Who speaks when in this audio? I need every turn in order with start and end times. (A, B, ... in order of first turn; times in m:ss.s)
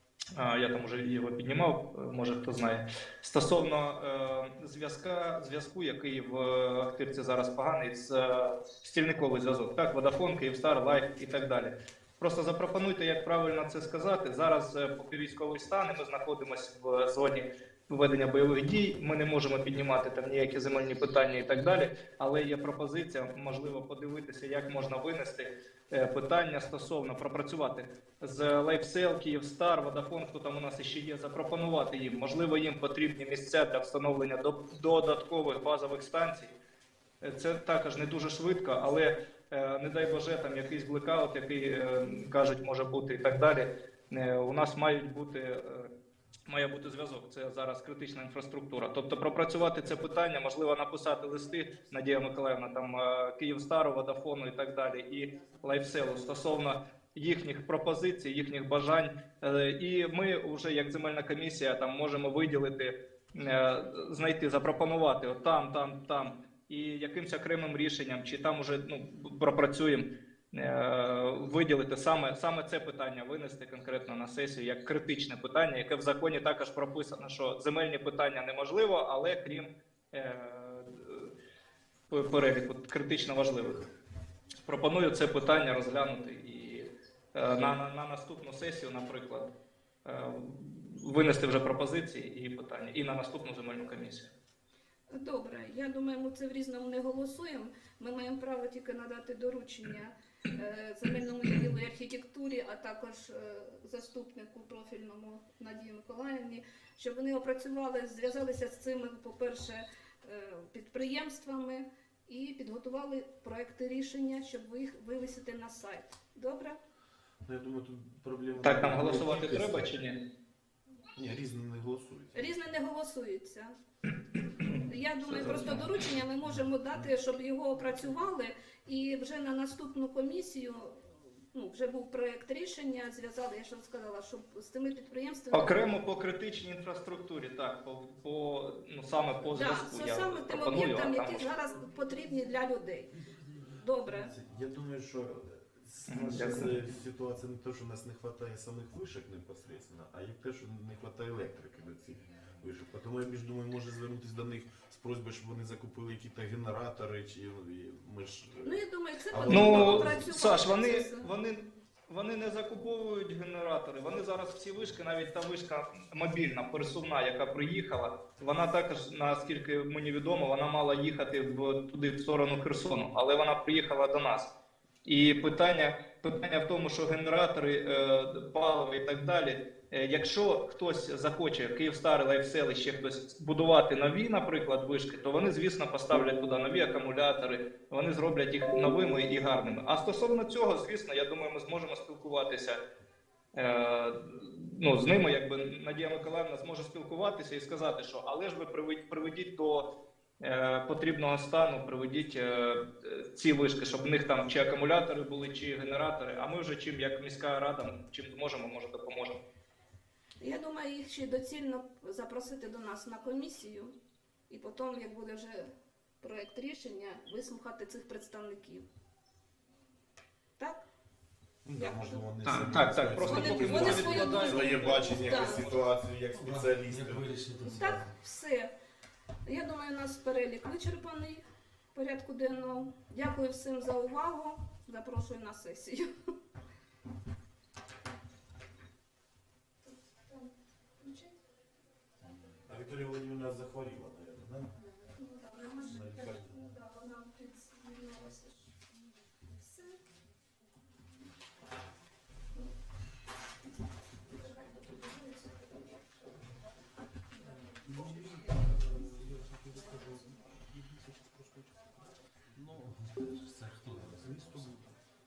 0:00.4-0:36.5 A
0:37.2-0:45.9 A
0:46.5-1:21.3 A
1:22.1-1:23.9 A
1:24.6-1:29.5 A
1:30.0-1:34.3 A
1:35.1-1:56.8 B
1:57.4-1:59.9 C
1:58.6-2:00.2 A
2:01.2-2:02.5 C
2:02.3-2:03.7 B
2:04.8-2:15.9 B
2:05.2-2:05.8 C
2:06.4-2:07.1 C
2:15.5-2:21.5 A
2:19.5-2:23.2 B
2:23.2-2:23.7 D
2:23.8-2:24.3 B
2:24.3-2:40.2 C
2:26.1-2:26.7 A
2:38.6-2:41.3 B
2:39.5-2:54.5 A
2:55.0-3:12.8 A
3:13.5-3:19.9 A
3:20.4-3:29.4 A
3:30.4-3:34.0 B
3:34.5-3:35.7 B
3:36.2-3:38.9 B
3:40.6-3:40.8 B
3:41.6-3:47.4 C
3:41.7-3:42.2 B
3:42.4-3:45.8 A
3:43.2-3:45.7 B
3:46.3-3:48.0 D
3:47.6-3:48.7 B
3:49.4-3:56.1 B
3:59.8-4:01.4 B
4:02.6-4:04.7 C
4:05.0-4:08.7 B
4:05.9-4:06.6 C
4:09.5-4:10.0 B
4:14.3-4:16.0 B
4:17.4-4:18.6 B
4:17.5-4:21.9 D
4:22.5-4:24.7 C
4:24.0-4:24.9 D